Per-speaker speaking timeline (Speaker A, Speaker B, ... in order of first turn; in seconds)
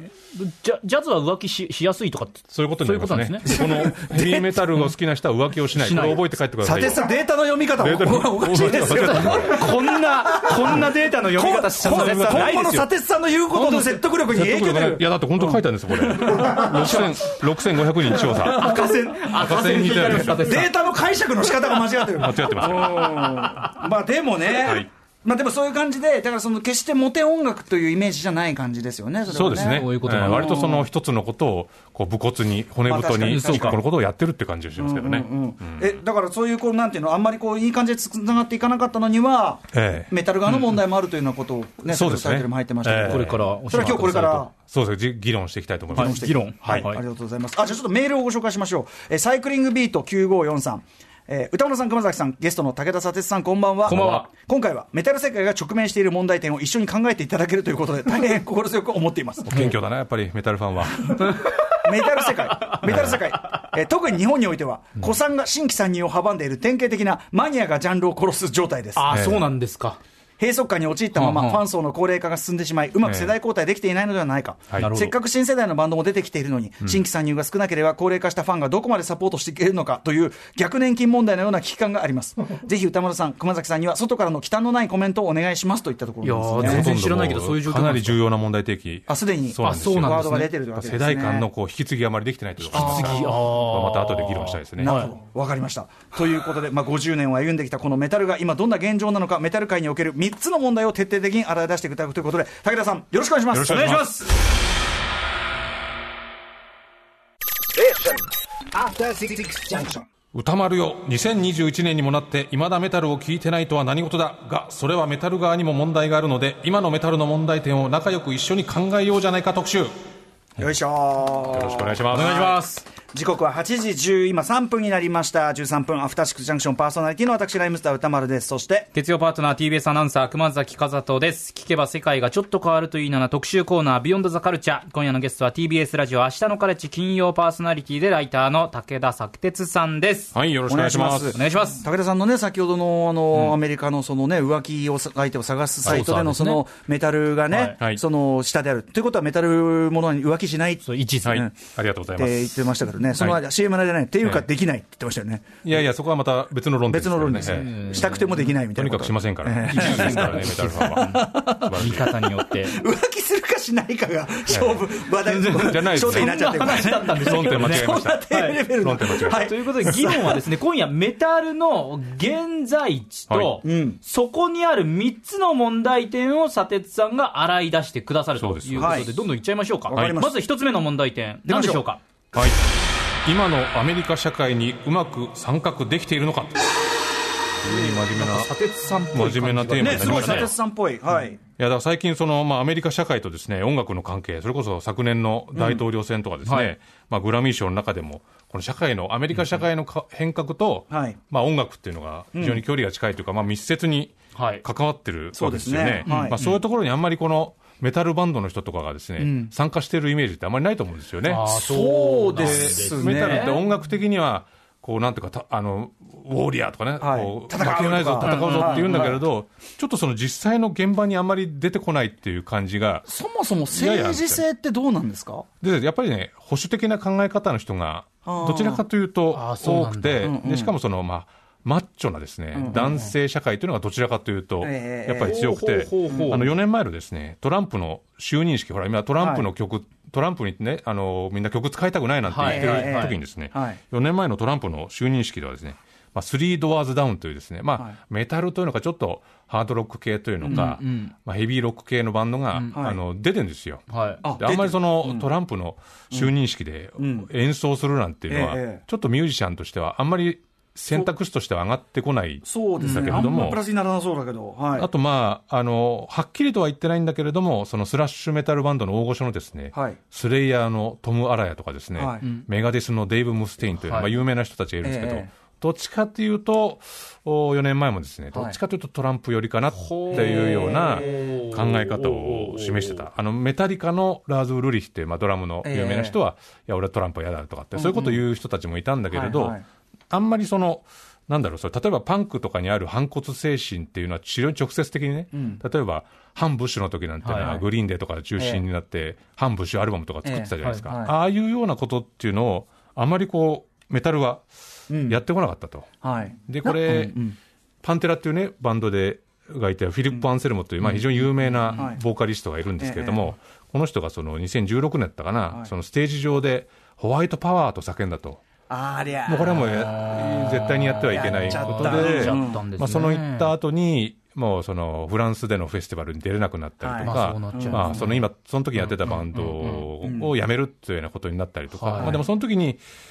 Speaker A: 0.3-3.5, 5.7-6.2, 8.7-12.9, 13.5-13.9, 16.4-17.2, 18.3-20.9, 29.6-30.7, 33.2-33.8, 43.1-44.5, 46.0-47.0, 53.9-54.3, 61.2-61.8, 69.0-70.0, 71.1-71.6, 74.8-75.1, 86.2-88.2, 89.6-90.5, 92.7-95.1, 103.7-104.2, 122.1-122.8, 128.9-140.3, 141.3-141.8, 145.8-146.6, 150.8-151.4, 157.4-158.5, 159.6-162.8, 165.2-168.6, 169.2-182.0, 187.6-190.5, 196.4-196.7, 204.3-204.6, 206.1-206.6, 211.2-213.5, 218.2-219.1, 229.3-230.4, 235.2-236.5, 242.3-243.2, 250.5-251.1, 253.9-254.2, 262.8-263.4, 273.8-274.1, 279.8-283.0, 287.8-288.1, 297.2-297.6, 310.9-311.8, 319.6-323.5, 327.0-328.3, 328.8-329.9, 331.7-332.2
Speaker B: 2.5-7.1, 7.8-9.7, 11.8-12.6, 14.2-20.7, 22.1-23.2, 24.6-24.9, 29.3-36.0, 39.7-40.1, 41.9-46.9, 53.9-54.3, 59.5-61.2, 62.8-63.2, 69.1-69.5, 73.0-73.3, 86.6-95.0, 103.5-104.1, 110.3-119.9, 121.5-122.4, 140.3-141.4, 151.2-152.6, 155.6-157.7, 158.7-162.1, 164.5-164.8, 165.5-169.5, 173.3-173.6, 178.4-179.1, 179.9-180.2, 182.3-182.7, 183.2-186.7, 187.6-188.5, 189.1-190.6, 191.6-211.6, 212.3-223.0, 223.7-224.4, 225.6-263.6, 264.8-289.6, 290.1-304.4, 305.1-305.9, 306.5-307.2, 307.8-318.4, 319.3-332.8
Speaker C: 3.5-4.6, 6.6-15.1, 16.1-17.1, 18.1-30.8, 32.9-33.8, 34.8-44.5, 45.9-59.6, 61.7-69.2, 70.4-86.8, 89.1-91.5, 92.7-93.4, 94.8-104.1, 107.8-108.2, 108.7-110.0, 120.6-128.9, 140.7-151.5, 152.1-155.5, 156.9-170.4, 173.6-174.0, 178.8-179.1, 179.9-180.4, 181.4-181.8, 189.8-191.4, 195.5-195.8, 200.9-201.2, 202.3-202.6, 205.3-206.3, 209.2-209.5, 211.5-213.6, 217.0-219.2, 223.1-225.4, 228.2-228.8, 230.2-230.7, 232.5-233.1, 234.6-235.4, 236.1-236.4, 239.2-239.5, 242.4-243.8, 250.4-250.7, 252.7-253.0, 254.2-255.3, 256.9-257.3, 258.3-258.8, 262.4-264.9, 269.7-270.0, 271.9-272.2, 274.8-275.3, 280.1-281.3, 285.6-286.2, 289.1-289.6, 295.3-295.6, 297.4-297.6, 300.2-301.1, 304.9-305.2, 306.0-307.4, 311.7-312.0, 312.8-313.3, 318.7-319.7, 321.1-322.6, 326.8-328.0, 330.0-330.3